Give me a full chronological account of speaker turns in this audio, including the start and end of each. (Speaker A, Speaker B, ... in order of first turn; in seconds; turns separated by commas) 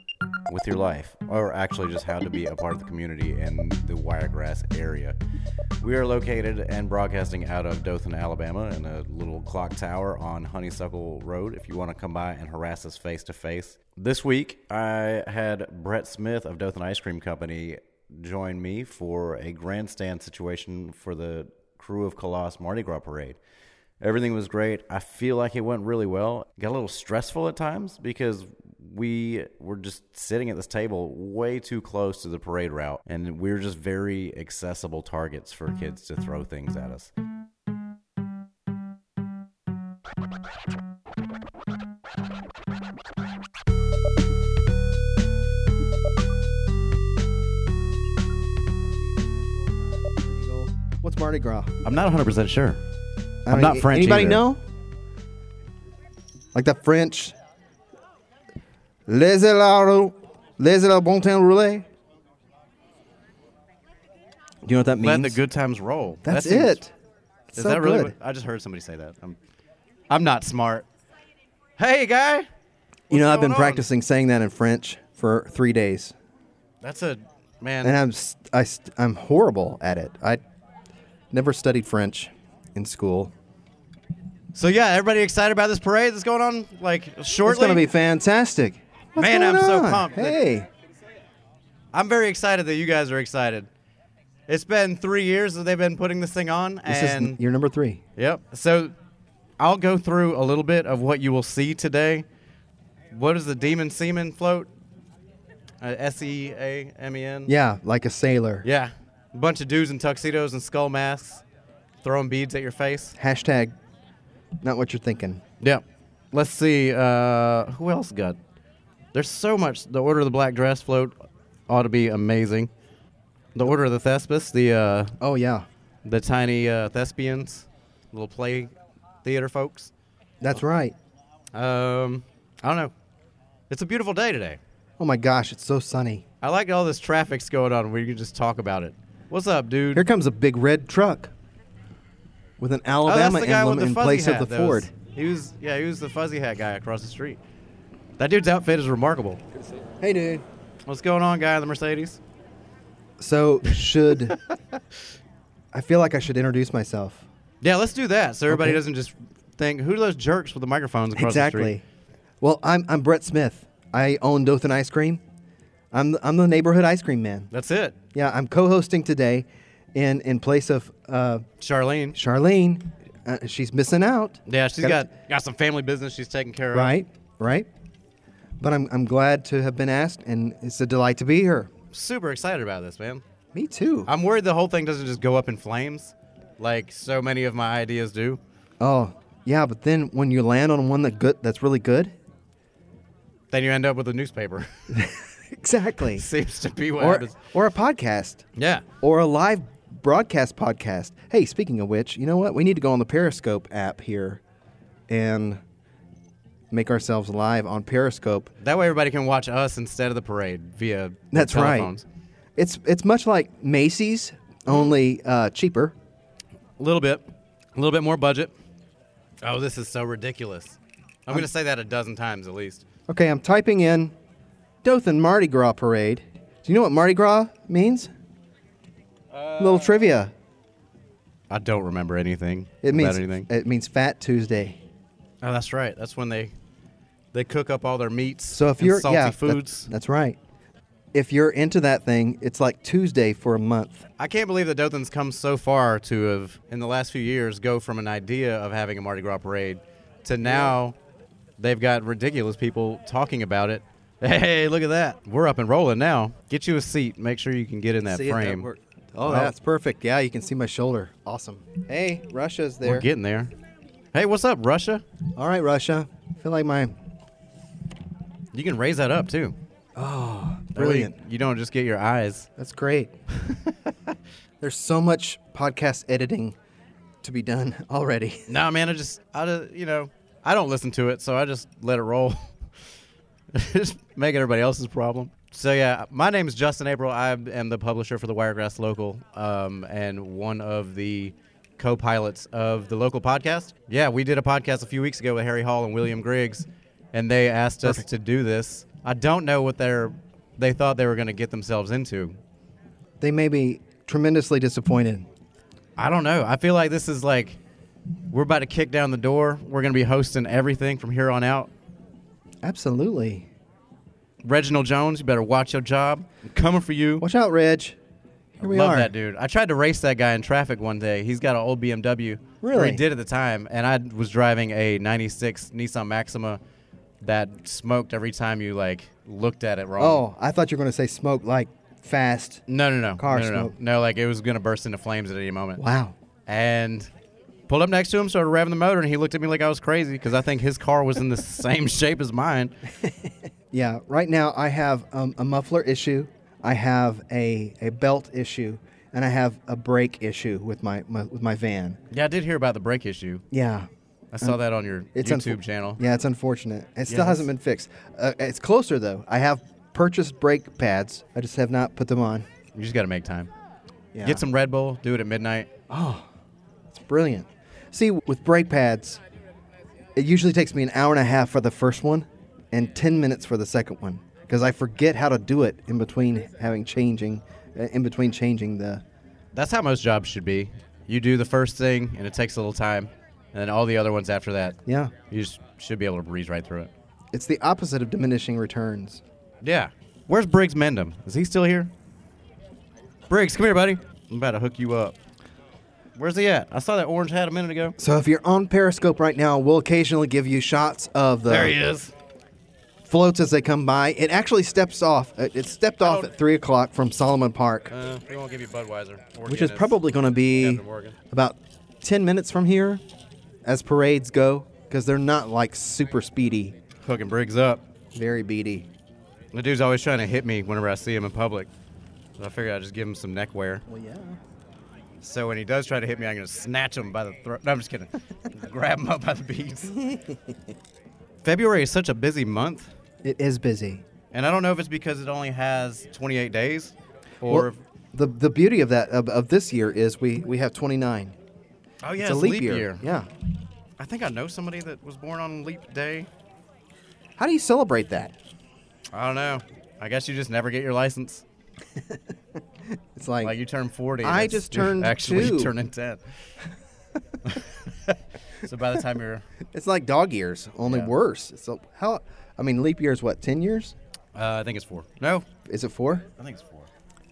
Speaker A: 0.5-5.2, Speaker A: 5.8-23.4, Speaker A: 24.0-37.1, Speaker B: 49.0-51.7, Speaker A: 51.9-52.8, Speaker B: 53.5-54.6, Speaker A: 53.5-54.5, Speaker B: 56.5-57.4, Speaker B: 59.1-61.9, Speaker B: 64.6-65.4, Speaker A: 65.0-66.8, Speaker B: 66.2-66.9, Speaker B: 67.5-68.1, Speaker A: 67.5-69.4, Speaker A: 70.1-70.9, Speaker A: 71.8-72.5, Speaker A: 73.1-73.9, Speaker B: 73.1-76.1, Speaker A: 76.8-78.0, Speaker B: 77.8-80.4, Speaker B: 81.3-83.3, Speaker A: 84.5-87.9, Speaker B: 87.5-90.7, Speaker A: 89.2-90.4, Speaker A: 91.9-93.7, Speaker A: 94.5-97.4, Speaker B: 96.9-98.0, Speaker A: 98.2-99.0, Speaker A: 99.6-102.3, Speaker A: 103.1-104.7, Speaker A: 105.8-107.5, Speaker B: 107.5-108.7, Speaker A: 108.6-111.4, Speaker A: 112.0-113.2, Speaker B: 113.2-113.8, Speaker B: 114.6-115.4, Speaker A: 115.6-118.4, Speaker A: 119.1-121.2, Speaker A: 121.7-122.7, Speaker A: 123.5-125.1, Speaker B: 125.2-125.7, Speaker A: 126.0-129.9, Speaker B: 130.4-131.0, Speaker A: 131.5-132.9, Speaker A: 133.7-134.6, Speaker B: 135.0-136.2, Speaker A: 136.4-140.1, Speaker B: 139.9-141.3, Speaker B: 142.6-144.9, Speaker A: 143.1-147.4, Speaker A: 148.2-149.4, Speaker B: 150.0-150.4, Speaker A: 150.9-152.2, Speaker B: 153.2-154.4, Speaker B: 155.7-157.2, Speaker A: 157.6-161.8, Speaker B: 158.5-158.8, Speaker B: 161.2-161.8, Speaker B: 162.4-165.2, Speaker B: 165.9-167.5, Speaker A: 167.5-168.0, Speaker B: 168.1-171.4, Speaker A: 171.6-172.2, Speaker B: 172.2-175.1, Speaker A: 174.5-176.9, Speaker B: 176.7-177.7, Speaker B: 178.6-181.7, Speaker A: 181.9-183.2, Speaker B: 183.5-184.1, Speaker A: 184.1-188.4, Speaker B: 188.8-192.1, Speaker A: 193.5-194.9, Speaker B: 194.9-196.3, Speaker A: 196.1-197.4, Speaker B: 197.0-198.4, Speaker A: 198.6-198.8, Speaker B: 199.0-204.4, Speaker B: 205.1-205.6, Speaker B: 206.7-208.5, Speaker A: 208.6-212.1, Speaker B: 211.3-211.9, Speaker B: 212.6-215.9, Speaker A: 216.8-218.5, Speaker A: 219.4-222.8, Speaker B: 223.1-224.1, Speaker B: 224.8-228.1, Speaker A: 229.3-230.0, Speaker B: 229.6-230.3, Speaker A: 231.5-233.5, Speaker B: 232.8-234.8, Speaker A: 235.4-236.5, Speaker A: 237.3-239.9, Speaker B: 238.5-240.4, Speaker B: 241.1-244.1, Speaker A: 244.2-251.0, Speaker B: 250.4-250.8, Speaker A: 251.6-258.7, Speaker B: 258.1-263.1, Speaker A: 259.3-259.5, Speaker A: 262.8-263.5, Speaker A: 264.1-265.0, Speaker B: 265.4-266.9, Speaker A: 268.5-269.6, Speaker B: 270.0-271.1, Speaker A: 270.8-272.5, Speaker B: 272.6-273.1, Speaker A: 273.3-274.1, Speaker B: 274.6-276.6, Speaker B: 277.2-278.5, Speaker A: 278.5-282.5, Speaker A: 283.5-302.4, Speaker B: 303.2-305.3, Speaker A: 306.0-307.6, Speaker A: 308.3-311.7, Speaker B: 312.6-313.5, Speaker A: 314.4-317.2, Speaker B: 317.2-318.0, Speaker B: 318.6-319.1, Speaker A: 318.6-326.6, Speaker B: 322.6-323.0, Speaker A: 327.2-330.2, Speaker B: 330.0-332.6, Speaker A: 332.7-335.8, Speaker B: 333.2-333.7, Speaker B: 335.8-336.2, Speaker A: 336.5-337.1, Speaker A: 337.7-342.8, Speaker B: 343.0-352.0, Speaker A: 352.1-353.4, Speaker B: 353.5-353.9, Speaker A: 354.3-356.0, Speaker B: 355.1-362.5, Speaker A: 357.1-357.5, Speaker A: 362.7-363.5, Speaker B: 364.1-364.4, Speaker A: 364.2-365.7, Speaker B: 365.9-366.3, Speaker B: 366.9-369.2, Speaker B: 370.1-379.0, Speaker A: 379.5-386.9, Speaker B: 384.9-385.1, Speaker B: 387.3-389.2, Speaker A: 389.6-391.9, Speaker A: 393.3-395.2, Speaker A: 396.2-398.0, Speaker B: 398.0-401.8, Speaker A: 401.5-402.1, Speaker B: 403.1-407.9, Speaker A: 406.0-406.3, Speaker A: 407.9-410.0, Speaker B: 409.5-413.0, Speaker A: 410.6-411.2, Speaker B: 413.6-416.8, Speaker A: 417.0-417.8, Speaker B: 418.1-418.9, Speaker A: 419.5-421.7, Speaker A: 422.4-423.8, Speaker B: 423.9-424.4, Speaker A: 425.2-430.1, Speaker B: 430.1-430.4, Speaker A: 431.4-432.9, Speaker B: 433.2-434.0, Speaker A: 434.3-437.8, Speaker B: 437.5-441.4, Speaker A: 442.0-443.1, Speaker B: 442.2-443.3, Speaker A: 444.0-446.3, Speaker B: 447.4-448.3, Speaker A: 449.1-451.4, Speaker B: 452.9-453.6, Speaker A: 453.4-456.2, Speaker B: 454.2-455.7, Speaker A: 457.4-459.5, Speaker B: 459.7-463.9, Speaker A: 460.9-461.1, Speaker A: 464.4-465.5, Speaker B: 465.6-466.3, Speaker A: 466.4-466.9